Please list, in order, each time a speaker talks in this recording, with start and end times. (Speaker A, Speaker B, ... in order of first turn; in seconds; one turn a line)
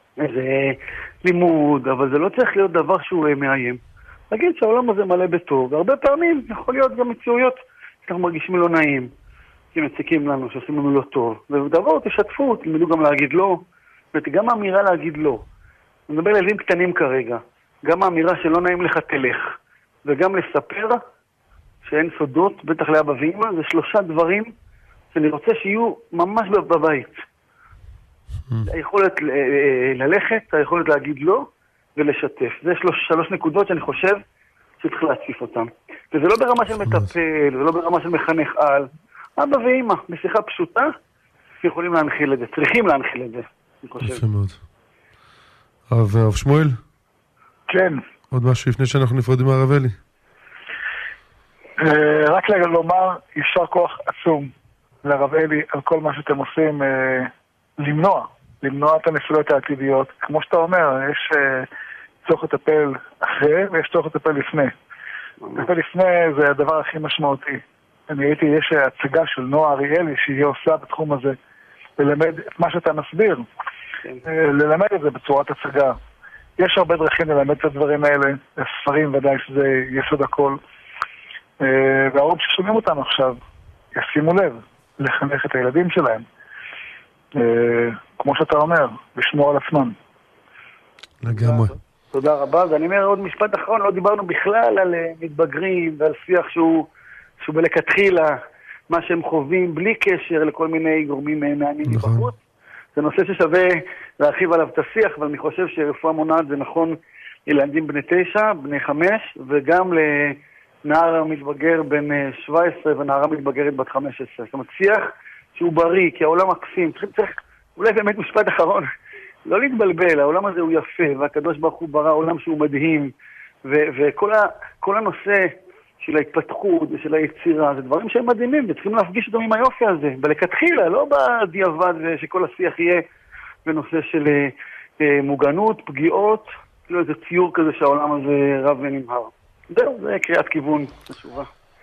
Speaker A: 0.2-9.1
Speaker A: 9.7-15.4
Speaker A: 16.1-21.0
Speaker A: 21.8-24.5
Speaker A: 25.1-27.2
Speaker A: 28.7-34.2
Speaker A: 34.8-40.9
Speaker A: 41.6-44.2
Speaker B: 44.0-44.6
Speaker B: 45.9-46.8
Speaker C: 47.7-48.0
Speaker B: 48.3-50.0
Speaker C: 51.8-54.5
Speaker C: 55.0-61.7
Speaker C: 62.2-64.7
Speaker C: 65.5-71.4
Speaker C: 72.0-73.5
Speaker C: 74.2-76.0
Speaker C: 76.6-80.6
Speaker C: 81.6-83.4
Speaker C: 83.9-86.2
Speaker C: 87.3-90.0
Speaker B: 91.2-91.8
Speaker A: 91.4-96.9
Speaker A: 97.4-98.4
Speaker A: 98.9-102.4
Speaker B: 101.9-102.3
Speaker A: 103.0-118.9
Speaker A: 119.5-123.1
Speaker A: 123.6-133.1
Speaker A: 133.7-141.5